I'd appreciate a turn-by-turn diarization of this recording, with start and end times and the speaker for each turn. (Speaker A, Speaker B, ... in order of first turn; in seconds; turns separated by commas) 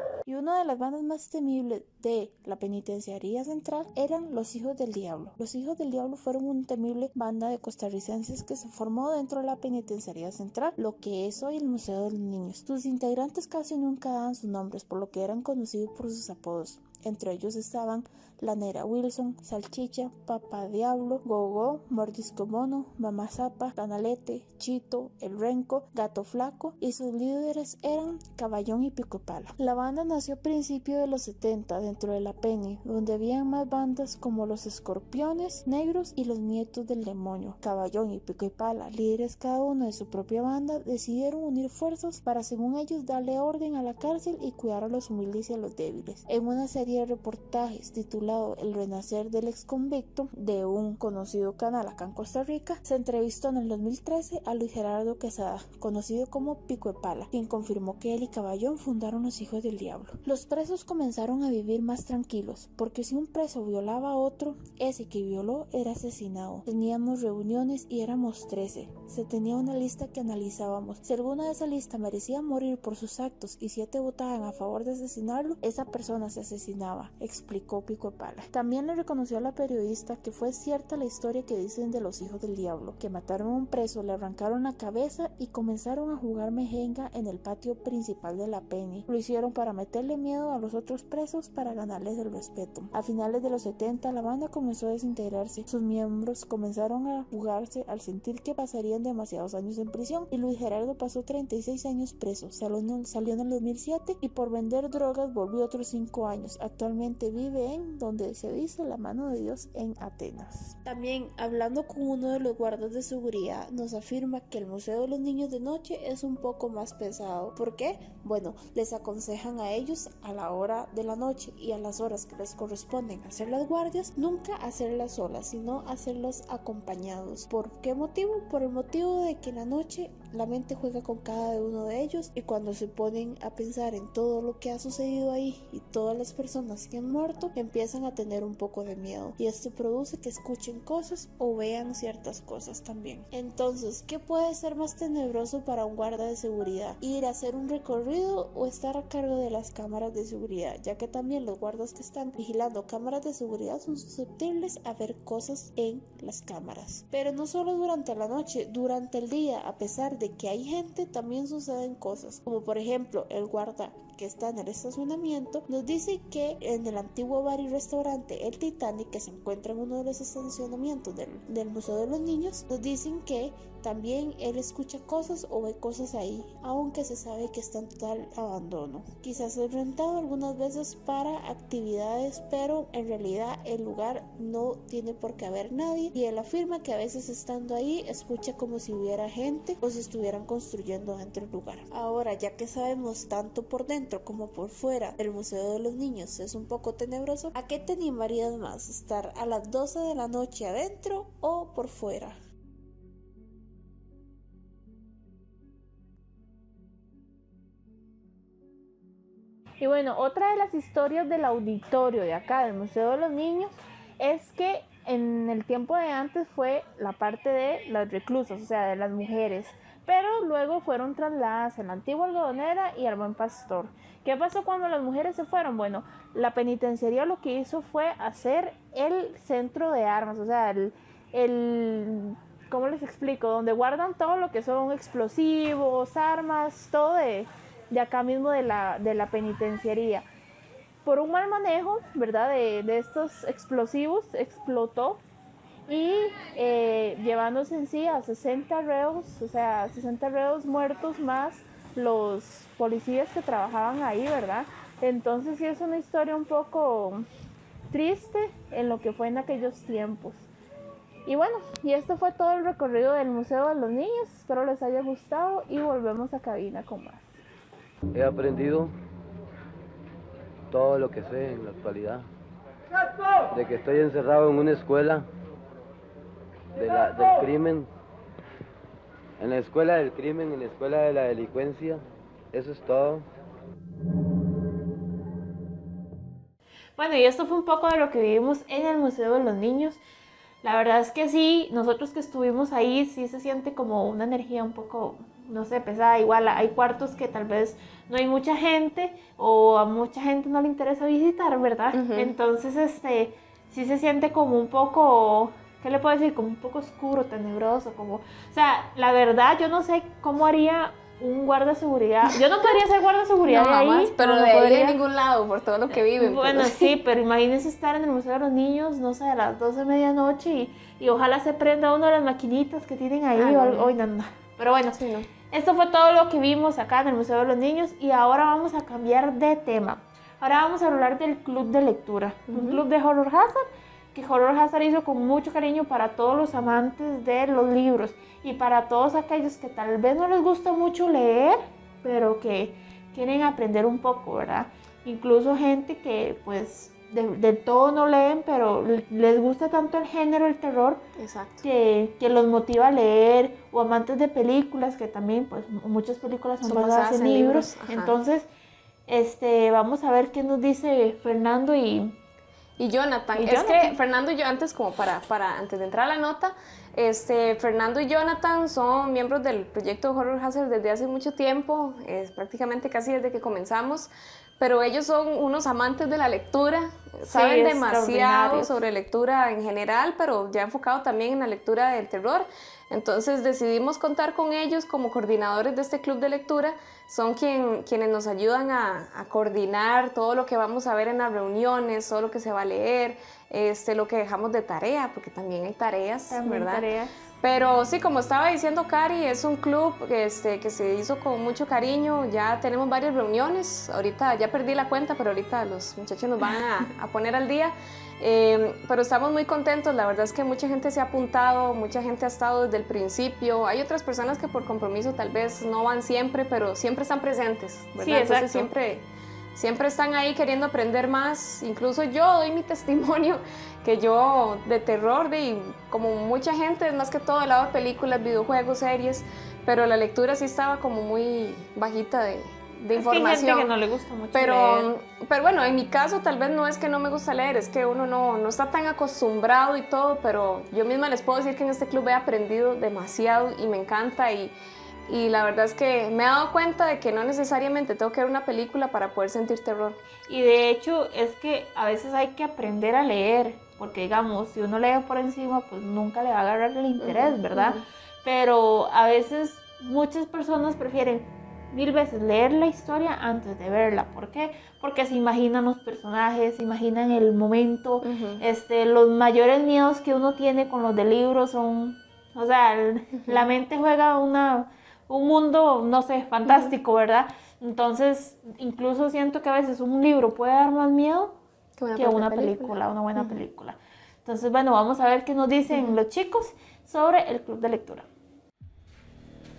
Speaker A: 0.3-46.3, Speaker B: 46.3-47.0, Speaker A: 47.1-52.9, Speaker B: 52.9-53.4, Speaker A: 53.9-202.4, Speaker B: 209.8-240.2, Speaker B: 241.1-245.2, Speaker B: 245.9-257.1, Speaker B: 257.9-260.3, Speaker B: 261.3-267.1, Speaker C: 268.1-268.9, Speaker C: 270.7-272.2, Speaker C: 273.5-275.3, Speaker C: 276.8-277.9, Speaker C: 279.4-282.0, Speaker C: 282.5-283.2, Speaker B: 287.0-290.0, Speaker B: 290.6-315.0, Speaker D: 301.9-302.3, Speaker D: 313.5-316.9, Speaker B: 316.2-325.0, Speaker D: 323.4-323.9, Speaker D: 325.0-325.3, Speaker B: 325.5-351.0, Speaker D: 332.5-332.8, Speaker D: 351.2-351.6, Speaker B: 351.6-358.5, Speaker D: 356.6-358.2, Speaker B: 359.1-362.1, Speaker D: 362.8-396.9, Speaker B: 363.4-363.9, Speaker B: 377.3-378.8, Speaker B: 396.3-397.1, Speaker D: 397.4-433.7, Speaker B: 418.0-418.7, Speaker B: 432.9-434.9, Speaker D: 434.3-444.6, Speaker D: 445.1-450.0, Speaker B: 450.3-481.4, Speaker D: 457.0-457.8, Speaker D: 468.0-468.4, Speaker D: 476.5-476.7, Speaker D: 481.8-483.4, Speaker B: 481.9-488.1